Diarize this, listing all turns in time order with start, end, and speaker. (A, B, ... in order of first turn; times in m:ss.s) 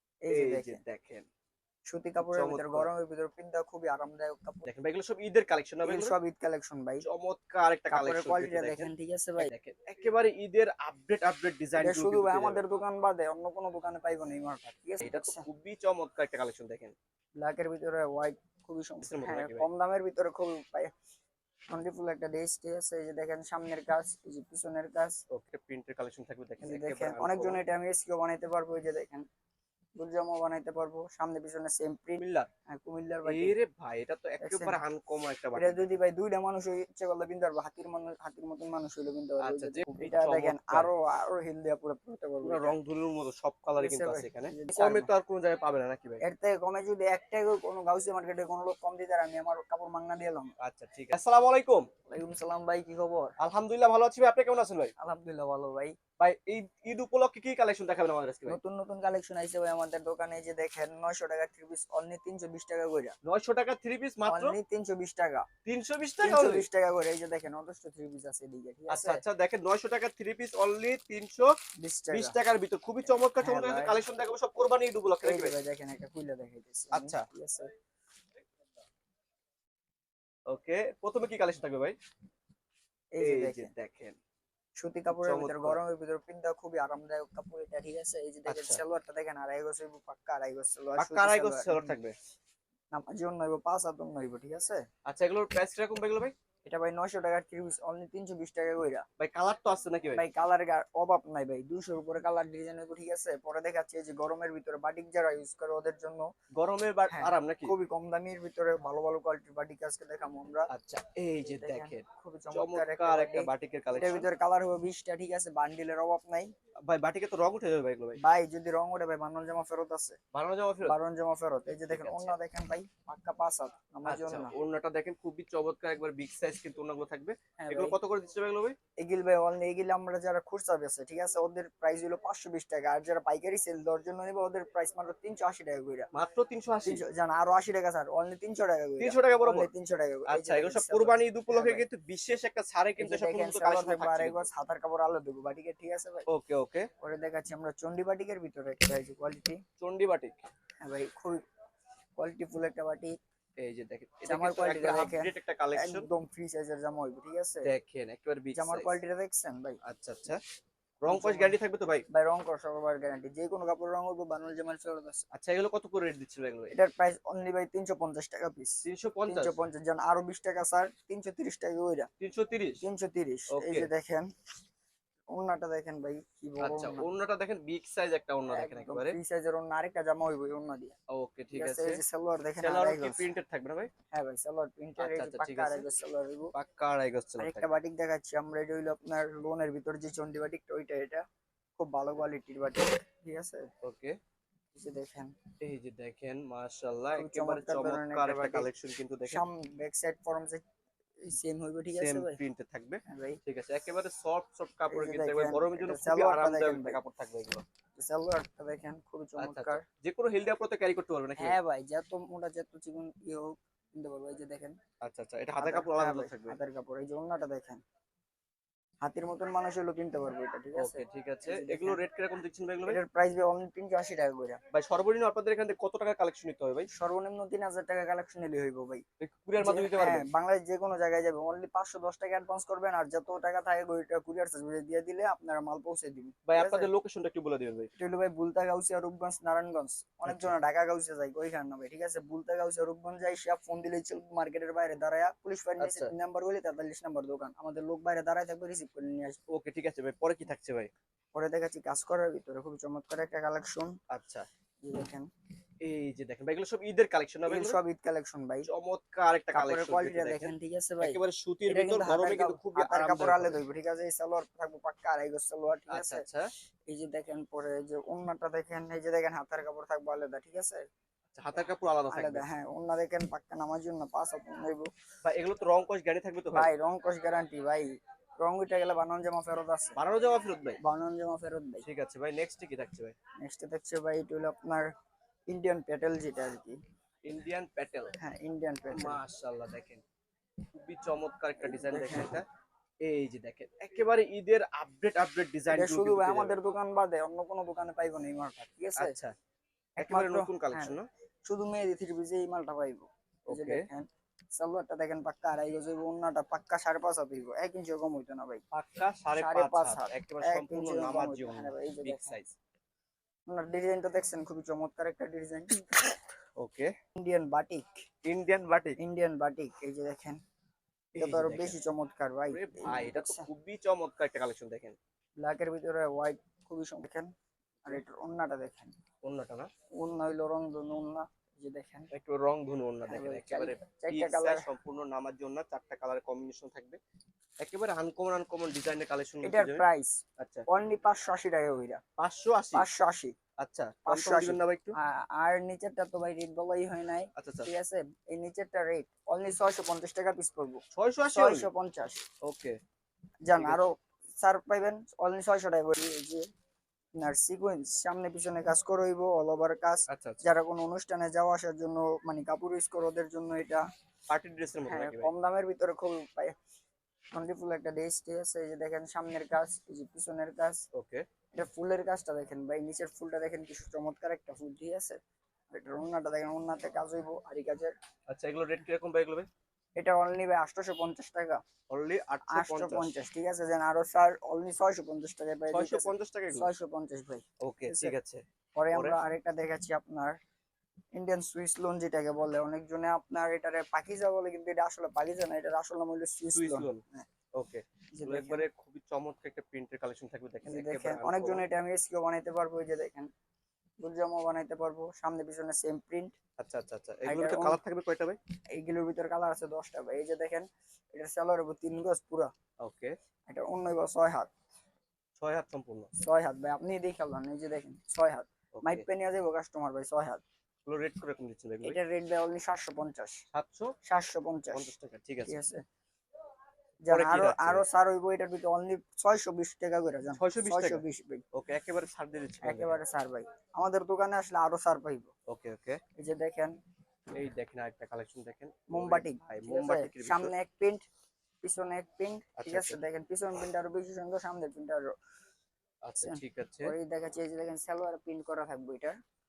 0:00.2-0:00.8 A
0:00.3-0:01.3 B
0:01.9-0:04.7 A
0:02.2-0:02.9 B
0:04.6-0:06.2 B
0:05.8-0:07.0 A
0:07.0-0:12.6 B
0:07.9-0:09.5 A
0:11.8-0:15.5 A
0:15.0-0:17.0 B
0:17.4-0:20.9 A
0:19.0-0:19.7 B
0:21.7-0:25.2 A
0:25.3-0:27.6 B
0:26.6-0:29.3 A
0:30.0-0:33.6 A
0:32.2-0:32.5 B
0:33.2-0:35.9 B
0:34.4-0:34.8 A
0:35.6-0:42.8 A
0:39.4-0:40.9 B
0:42.4-0:46.2 B
0:43.8-0:45.1 A
0:46.2-0:50.5 A
0:50.6-0:51.9 B
0:52.1-0:53.3 A
0:53.4-0:54.9 B
0:55.0-0:56.0 A
0:56.2-0:58.6 B
0:58.5-1:03.2 A
1:03.2-1:04.6 B
1:04.2-1:05.5 A
1:05.6-1:06.7 B
1:06.2-1:09.2 A
1:08.9-1:11.5 B
1:11.8-1:12.4 A
1:12.1-1:15.6 B
1:13.4-1:14.0 A
1:15.2-1:17.7 A
1:16.9-1:17.3 B
1:20.5-1:22.0 B
1:23.2-1:23.7 A
1:23.2-1:24.2 B
1:24.8-1:32.0 A
1:25.1-1:25.8 B
1:28.5-1:28.8 B
1:31.0-1:32.1 B
1:32.9-1:34.8 A
1:35.1-1:36.3 B
1:36.6-1:39.0 A
1:39.2-1:40.2 B
1:40.2-1:46.3 A
1:46.6-1:47.8 B
1:47.1-1:50.7 A
1:50.7-1:54.3 B
1:51.5-1:56.5 A
1:56.9-1:58.2 B
1:58.2-2:00.2 A
2:00.3-2:01.0 B
2:00.8-2:04.5 A
2:01.9-2:02.4 B
2:04.1-2:08.8 B
2:07.6-2:08.0 A
2:09.0-2:16.1 A
2:16.1-2:17.0 B
2:16.9-2:21.9 A
2:19.0-2:19.7 B
2:20.3-2:24.5 B
2:23.0-2:26.3 A
2:26.3-2:26.9 B
2:27.0-2:29.6 A
2:29.8-2:30.4 B
2:30.8-2:31.4 A
2:32.2-2:33.2 A
2:33.6-2:36.1 B
2:34.3-2:37.7 A
2:37.6-2:39.0 B
2:38.6-2:39.8 A
2:39.8-2:40.4 B
2:41.0-2:42.1 B
2:41.1-2:41.6 A
2:42.1-2:45.3 A
2:45.3-2:46.7 B
2:46.7-2:52.1 A
2:48.8-2:49.6 B
2:52.2-2:52.8 B
2:52.8-2:54.3 A
2:53.5-2:53.9 B
2:55.3-2:57.1 A
2:56.6-2:59.2 B
2:58.5-3:01.0 A
3:01.1-3:02.0 B
3:01.5-3:03.3 A
3:02.6-3:03.9 B
3:04.1-3:06.5 A
3:05.0-3:05.9 B
3:06.5-3:07.8 B
3:07.4-3:11.2 A
3:11.8-3:13.7 A
3:13.8-3:14.2 B
3:14.8-3:15.3 A
3:15.6-3:19.4 B
3:17.2-3:18.7 A
3:19.3-3:20.6 A
3:21.3-3:22.4 A
3:21.9-3:27.6 B
3:23.1-3:23.4 A
3:24.9-3:27.0 A
3:28.0-3:29.8 A
3:29.4-3:31.6 B
3:31.4-3:34.8 A
3:35.0-3:36.6 B
3:35.6-3:37.8 A
3:39.0-3:42.0 A
3:40.8-3:43.0 B
3:42.9-3:44.6 A
3:44.7-3:46.9 B
3:47.0-3:49.0 A
3:49.2-3:50.3 B
3:49.6-3:56.9 A
3:56.5-3:57.9 B
3:58.0-4:09.4 A
4:00.3-4:00.5 B
4:05.8-4:06.1 B
4:09.5-4:10.9 B
4:11.3-4:14.0 A
4:14.1-4:14.5 B
4:14.8-4:15.3 A
4:15.8-4:17.8 B
4:17.5-4:18.7 A
4:18.7-4:23.6 B
4:19.5-4:26.2 A
4:25.9-4:26.5 B
4:26.9-4:30.8 A
4:31.3-4:32.5 B
4:32.1-4:34.9 A
4:35.2-4:36.7 B
4:36.5-4:40.0 A
4:40.0-4:40.8 B
4:40.8-4:41.8 A
4:41.8-4:43.2 B
4:43.4-4:44.9 A
4:45.5-4:46.8 A
4:47.3-4:48.2 B
4:48.2-4:49.2 A
4:48.9-4:50.0 B
4:50.8-4:52.5 B
4:51.6-4:52.4 A
4:53.0-4:56.6 B
4:55.7-4:59.2 A
4:59.0-4:59.3 B
5:00.0-5:08.6 A
5:00.0-5:01.1 B
5:03.5-5:03.8 B
5:08.7-5:12.6 B
5:09.4-5:12.4 A
5:13.5-5:16.2 A
5:16.6-5:16.9 B
5:17.2-5:18.0 A
5:18.2-5:19.0 B
5:19.0-5:20.4 A
5:21.2-5:21.8 B
5:21.2-5:23.5 A
5:22.5-5:25.0 B
5:25.4-5:27.3 A
5:27.8-5:29.0 A
5:29.2-5:29.7 B
5:30.0-5:32.1 A
5:32.1-5:37.0 B
5:33.0-5:34.7 A
5:37.6-5:39.8 B
5:39.4-5:40.2 A
5:40.4-5:40.7 B
5:40.7-5:42.0 A
5:42.2-5:42.9 B
5:42.7-5:43.3 A
5:43.6-5:45.0 B
5:44.1-5:52.2 A
5:47.4-5:47.7 B
5:50.9-5:51.7 B
5:52.4-5:52.8 B
5:53.5-5:56.5 A
5:53.5-5:53.8 B
5:57.2-6:03.8 A
6:00.1-6:00.4 B
6:04.3-6:05.3 B
6:04.9-6:06.5 A
6:07.3-6:10.8 A
6:10.9-6:11.2 B
6:11.5-6:15.2 A
6:15.7-6:17.9 A
6:18.3-6:19.5 B
6:20.0-6:21.6 A
6:21.9-6:23.2 B
6:22.5-6:28.2 A
6:25.7-6:26.7 B
6:27.6-6:29.2 B
6:28.8-6:30.3 A
6:31.2-6:37.3 A
6:36.5-6:37.0 B
6:37.6-6:41.6 B
6:38.2-6:38.7 A
6:40.7-6:43.3 A
6:44.0-6:46.4 A
6:46.6-6:48.4 B
6:47.3-6:47.8 A
6:48.8-6:52.5 A
6:52.8-6:53.1 B
6:53.5-6:54.5 A
6:55.4-6:56.1 B
6:56.2-7:00.4 A
6:58.8-6:59.0 B
7:00.9-7:02.0 B
7:01.8-7:03.4 A
7:03.5-7:03.9 B
7:04.0-7:04.9 A
7:04.7-7:05.6 B
7:05.5-7:05.8 A
7:07.1-7:11.4 A
7:07.1-7:07.8 B
7:10.4-7:13.0 B
7:12.6-7:15.3 A
7:15.5-7:16.0 B
7:16.2-7:16.8 A
7:17.3-7:20.5 B
7:18.9-7:21.0 A
7:21.6-7:25.1 A
7:22.6-7:23.0 B
7:26.0-7:27.0 B
7:26.2-7:29.2 A